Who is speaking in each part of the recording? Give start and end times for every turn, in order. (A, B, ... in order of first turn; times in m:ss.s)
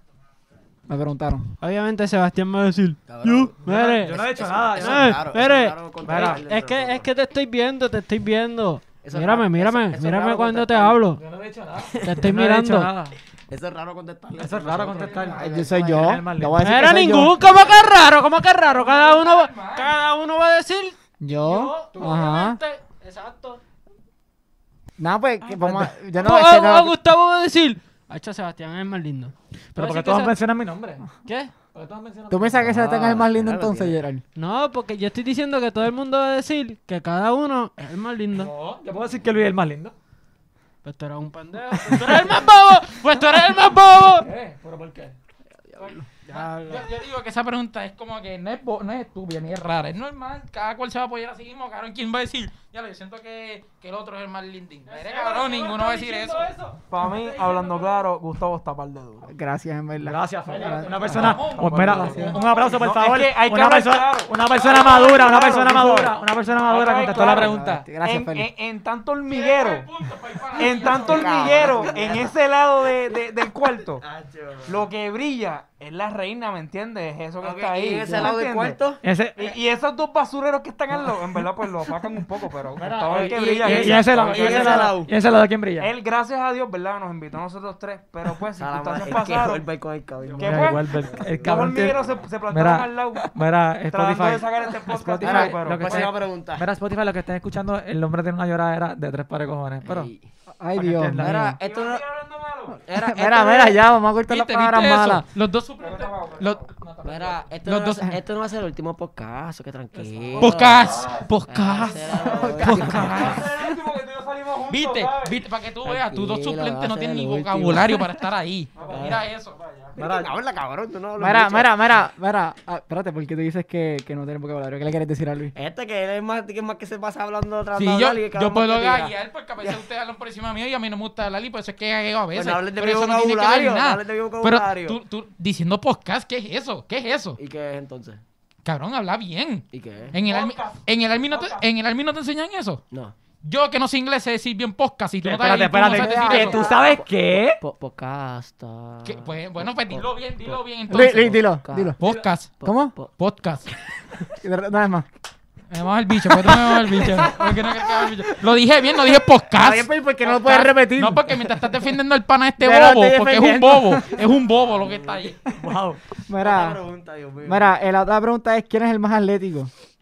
0:00.9-0:01.5 A
0:01.6-0:04.2 B
0:03.1-0:07.1 C
0:03.6-0:05.2 D
0:04.7-0:11.2 B
0:06.0-0:06.4 D
0:09.0-0:11.0 C
0:11.2-0:13.2 D
0:11.9-0:12.2 C
0:12.0-0:12.9 B
0:13.5-0:16.0 C
0:14.4-0:16.8 D
0:14.9-0:15.4 E
0:15.4-0:17.4 A
0:16.6-0:23.6 B
0:18.7-0:20.0 E
0:21.2-0:22.6 A
0:25.0-0:27.0 A
0:25.5-0:25.9 D
0:26.2-0:30.4 B
0:29.8-0:31.1 D
0:31.3-0:31.5 B
0:31.7-0:32.8 D
0:32.3-0:34.2 A
0:32.7-0:34.0 C
0:34.4-0:38.5 B
0:38.3-0:39.9 D
0:40.8-0:44.3 B
0:44.2-0:45.2 D
0:45.6-0:46.1 C
0:45.8-0:46.9 B
0:46.3-0:56.5 E
0:54.9-0:58.0 B
0:56.9-0:59.3 F
0:59.3-1:01.4 A
1:00.0-1:07.9 D
1:00.5-1:09.9 F
1:00.5-1:02.8 E
1:06.9-1:07.8 E
1:07.2-1:08.5 A
1:09.3-1:12.0 E
1:10.6-1:14.0 F
1:11.0-1:12.3 C
1:14.0-1:14.9 C
1:14.7-1:18.8 F
1:17.4-1:19.0 C
1:19.0-1:19.5 D
1:19.4-1:25.1 F
1:22.8-1:25.9 D
1:23.0-1:25.1 C
1:25.8-1:29.7 F
1:28.6-1:32.2 C
1:30.2-1:40.1 D
1:30.4-1:36.1 F
1:35.2-1:36.7 C
1:39.8-1:40.2 C
1:40.6-1:41.6 A
1:40.8-1:41.6 D
1:41.2-1:42.0 C
1:41.6-1:42.8 F
1:42.8-1:43.8 C
1:42.9-1:45.2 A
1:44.3-1:48.2 E
1:45.8-1:46.7 F
1:47.0-1:53.5 C
1:50.0-1:50.7 D
1:50.4-1:53.6 E
1:52.0-1:55.4 F
1:52.2-1:53.2 A
1:54.7-1:59.6 E
1:55.8-1:58.2 C
1:58.7-2:00.3 F
1:58.9-1:59.2 C
2:00.0-2:01.7 C
2:01.2-2:05.5 A
2:05.6-2:09.8 C
2:07.7-2:17.4 E
2:12.3-2:15.0 C
2:17.4-2:18.2 C
2:18.6-2:22.8 E
2:19.7-2:20.2 C
2:20.1-2:21.6 F
2:23.4-2:26.7 E
2:25.2-2:27.6 D
2:25.9-2:26.6 A
2:26.1-2:30.6 C
2:29.0-2:31.4 E
2:30.9-2:32.0 A
2:31.4-2:33.1 C
2:32.0-2:32.6 E
2:32.6-2:32.9 A
2:33.1-2:33.7 E
2:34.4-2:35.1 A
2:35.7-2:45.4 E
2:36.9-2:37.6 C
2:39.6-2:41.5 A
2:42.6-2:44.2 A
2:44.5-2:45.4 C
2:45.5-2:46.0 D
2:46.2-2:46.8 A
2:46.4-2:47.8 C
2:47.4-2:49.7 A